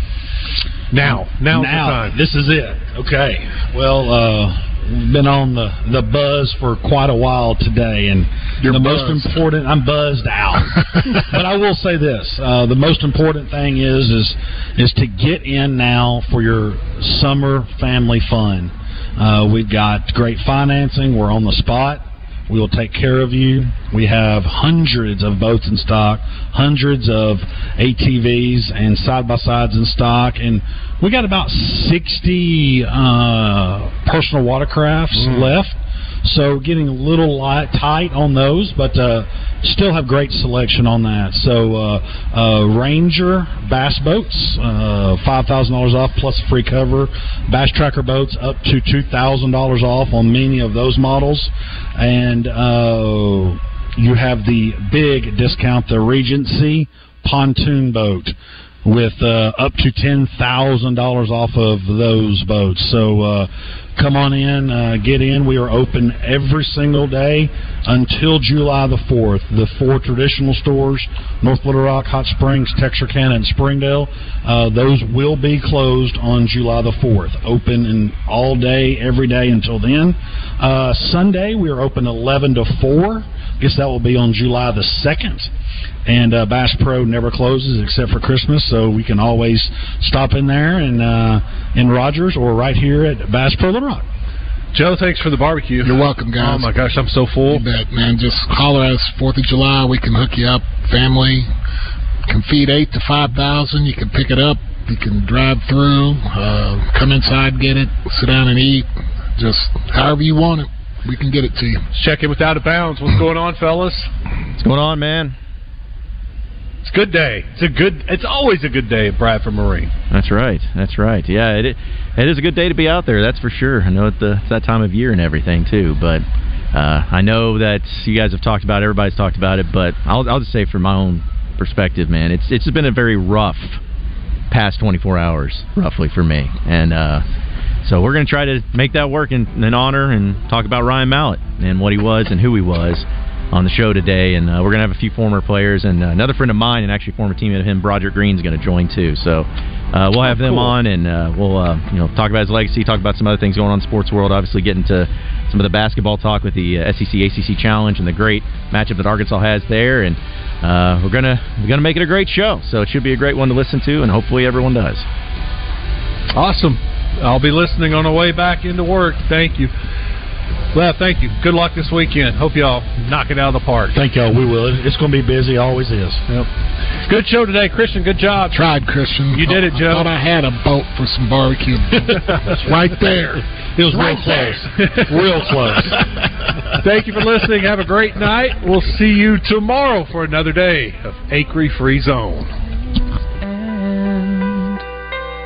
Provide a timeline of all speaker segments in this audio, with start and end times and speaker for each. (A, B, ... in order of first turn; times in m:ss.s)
0:00.9-0:02.2 A
0:01.0-1:25.5 B
0:08.6-0:09.3 C
0:35.2-0:35.5 A
1:26.0-1:34.0 B
1:34.7-1:37.6 A
1:35.8-1:36.7 C
1:37.4-1:41.5 C
1:42.3-1:51.8 C
1:51.9-1:54.1 A
1:54.6-1:55.3 D
1:56.8-1:59.9 A
2:00.1-2:13.8 D
2:14.5-2:17.2 D
2:17.8-2:45.0 D
2:30.4-2:30.7 A
2:46.3-2:49.7 A
2:50.7-2:54.0 A
2:53.9-2:56.2 B
2:56.3-2:58.6 A
2:58.5-3:03.4 C
2:59.3-3:00.1 A
3:03.8-3:05.9 A
3:03.8-3:06.0 B
3:06.8-3:12.5 A